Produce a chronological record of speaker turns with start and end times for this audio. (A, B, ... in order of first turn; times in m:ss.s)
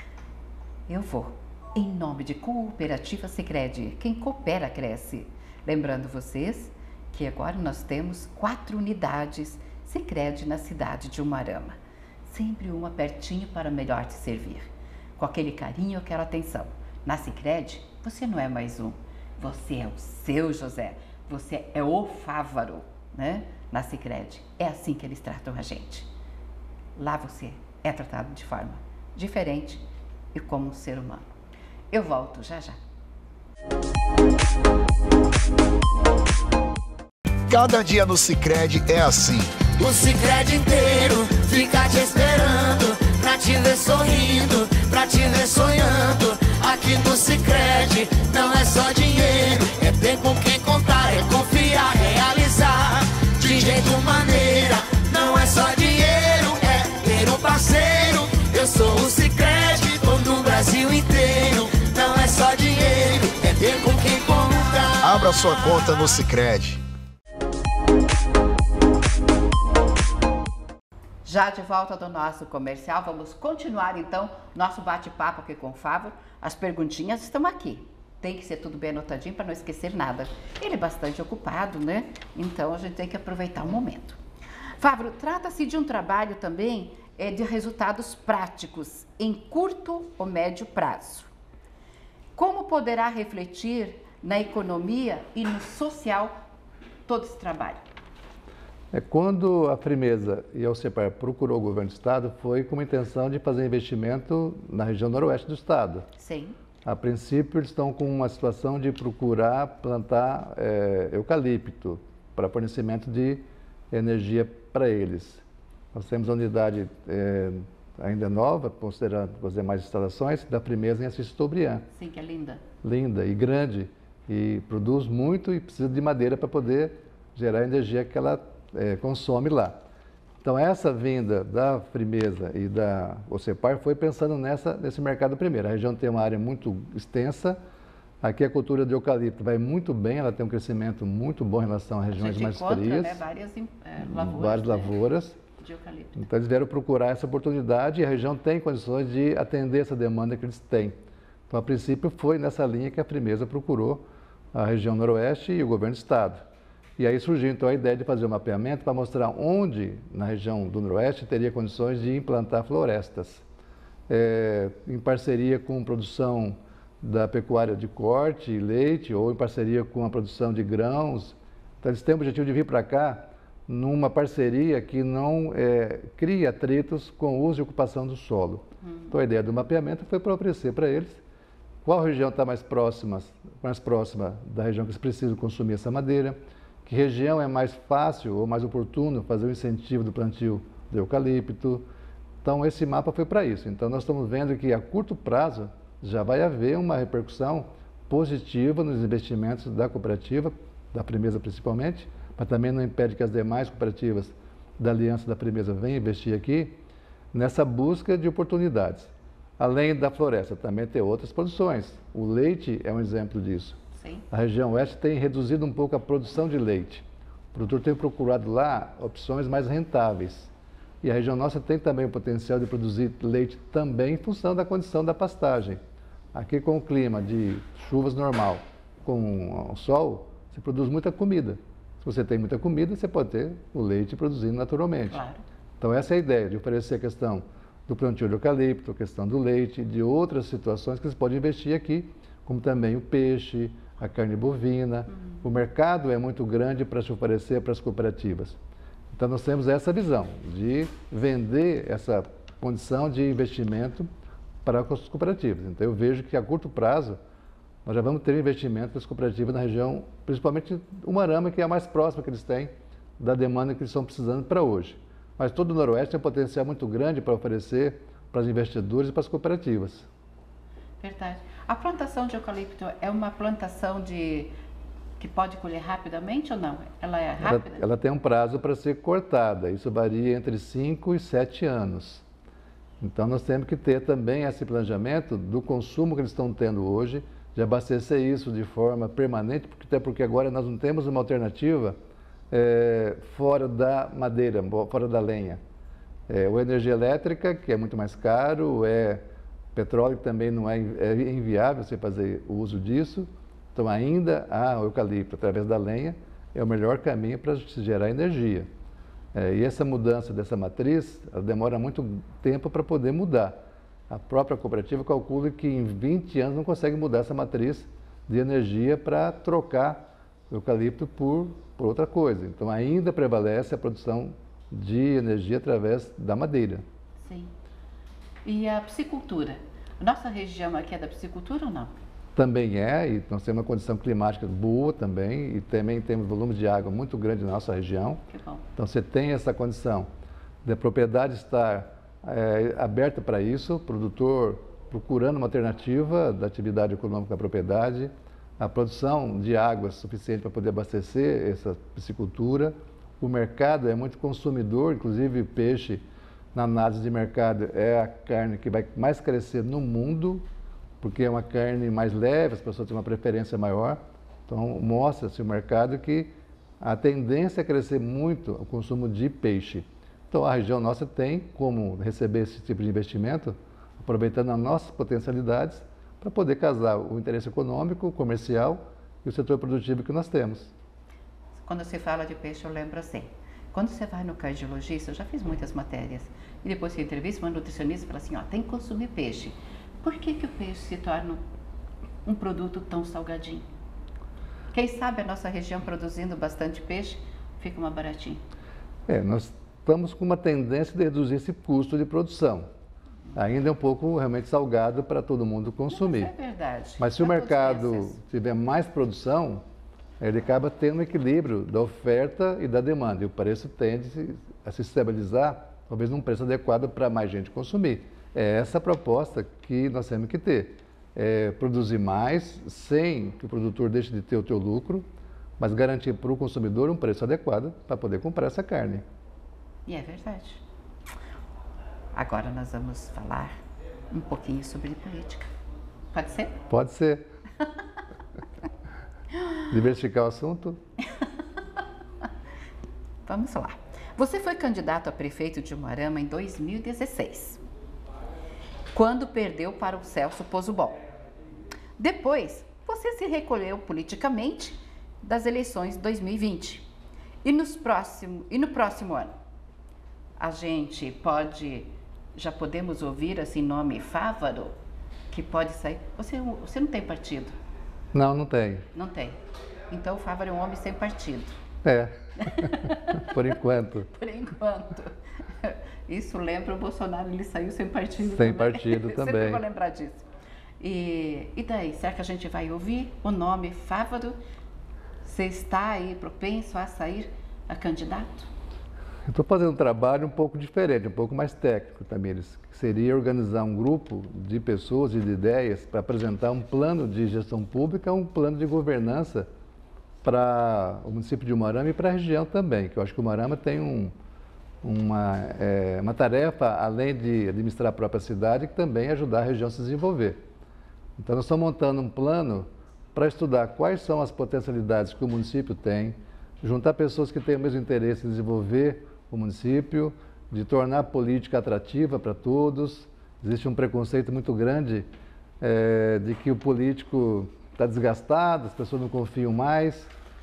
0:00.9-0:26.1 A
0:27.0-0:29.8 A
0:30.3-0:31.3 A
0:31.9-0:32.8 A
0:37.5-0:39.6 B
0:39.8-1:05.0 C
1:05.0-1:06.8 B
1:11.2-1:24.2 A
1:24.8-1:31.3 A
1:32.3-1:36.3 A
1:37.0-1:37.8 A
1:38.9-1:46.1 D
1:46.2-1:46.6 A
1:46.8-2:01.9 D
2:01.9-2:02.6 A
2:02.8-2:09.8 D
2:10.4-2:17.6 D
2:18.2-2:23.2 D
2:22.1-2:24.9 A
2:24.0-2:25.4 D
2:25.6-2:26.2 A
2:26.2-2:31.0 D
2:31.5-2:36.4 D
2:37.0-2:43.4 D
2:44.1-3:01.2 D
2:58.8-2:59.1 A
3:01.8-3:11.9 D
3:12.4-3:26.8 D
3:27.3-3:33.8 D
3:34.0-3:34.2 A
3:34.3-3:40.5 D
3:41.0-3:45.8 D
3:46.3-3:55.2 D
3:55.1-3:55.4 A
3:55.8-4:08.6 D
4:09.1-4:14.1 D
4:14.6-4:17.2 D
4:17.8-4:30.1 D
4:31.0-4:34.5 A
4:35.2-4:37.8 A
4:37.4-4:42.2 D
4:43.0-4:52.0 D
4:52.5-4:55.6 D
4:56.3-4:59.2 D
4:59.8-5:08.7 D
5:09.3-5:13.6 D
5:14.1-5:26.8 D
5:27.2-5:27.5 A
5:28.4-5:31.9 A
5:32.4-5:38.2 D
5:38.3-5:38.6 A
5:38.8-5:40.1 D
5:40.6-6:00.4 D
6:01.0-6:20.7 D
6:21.6-6:31.4 A
6:32.2-6:33.7 A
6:34.7-6:38.4 A
6:39.1-6:42.7 D
6:43.3-6:46.3 D
6:45.9-6:48.2 A
6:47.0-6:49.6 D
6:50.2-7:05.0 D
7:05.6-7:09.0 D
7:09.9-7:10.6 A
7:12.1-7:13.6 A
7:14.1-7:15.5 A
7:16.1-7:16.6 A
7:16.7-7:17.3 D
7:19.7-7:20.8 D
7:23.2-7:27.6 A
7:28.9-7:31.0 A
7:32.0-7:36.9 A
7:37.4-7:39.3 A
7:40.4-7:44.7 A
7:45.3-7:47.5 A
7:48.1-7:48.9 D
7:48.9-7:51.6 A
7:51.8-7:54.1 D
7:52.4-7:53.3 A
7:54.1-8:00.2 A
7:58.2-7:59.6 D
8:00.8-8:04.4 A
8:05.2-8:08.5 A
8:09.2-8:19.5 D
8:20.2-8:24.1 D
8:24.8-8:30.4 D
8:31.2-8:45.1 D
8:45.6-8:50.1 D